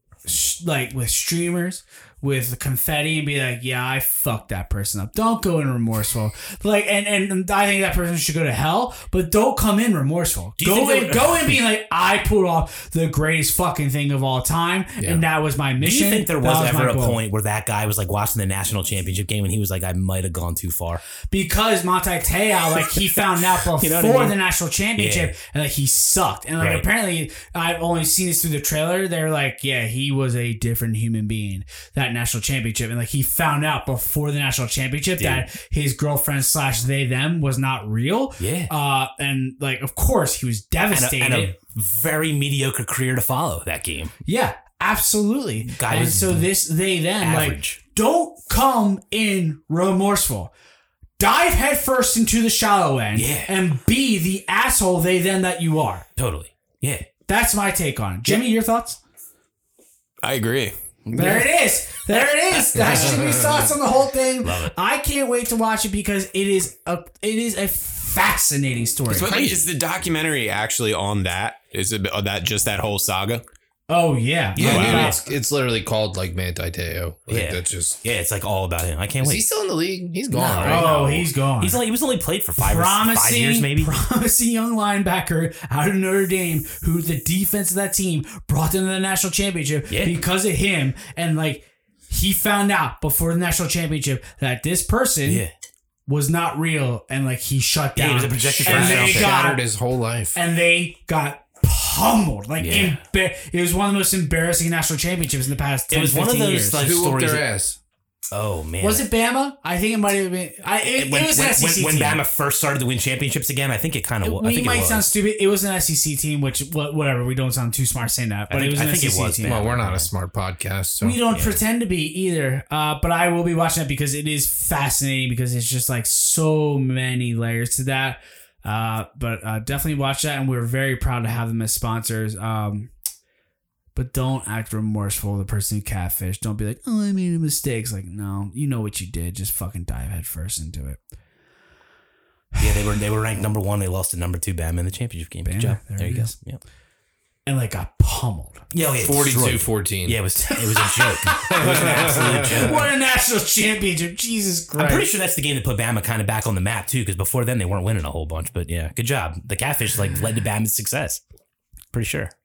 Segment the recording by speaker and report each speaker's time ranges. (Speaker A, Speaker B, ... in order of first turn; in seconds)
Speaker A: 0.2-17.2, 21.3-41.5, 44.2-50.5, 51.2-56.1, 57.3-59.0, 61.1-69.3, 73.9-75.2, 80.6-81.8, 82.6-95.4, 96.1-99.7, 100.3-106.9, 108.8-112.2, 114.2-119.7, 121.0-132.9, 133.9-141.0, 145.4-146.3, 147.4-148.6, 150.7-155.1
Speaker B: 10.6-11.6, 15.8-21.0, 23.8-24.4, 24.9-25.3, 26.6-26.9, 35.2-35.5, 38.4-38.7, 40.9-44.1, 45.6-46.5, 47.2-47.8, 53.1-53.5, 56.1-57.1, 61.0-61.5, 62.5-63.4, 64.4-64.7, 69.1-69.7, 74.5-75.1, 77.3-79.4, 80.3-83.9, 89.9-90.2, 95.2-95.5, 98.0-99.4, 102.6-103.0, 105.9-107.5, 108.3-109.0, 110.9-115.1, 118.5-120.1, 121.3-121.6, 142.6-146.6, 148.7-152.9, 154.8-161.2, 161.9-162.3
Speaker C: 15.0-15.2, 62.8-63.5, 74.6-78.0, 79.2-81.2, 98.6-100.4, 106.8-107.8, 119.4-121.2, 149.0-150.2, 151.5-152.7
Speaker D: 60.2-60.7, 69.1-73.4, 74.6-75.1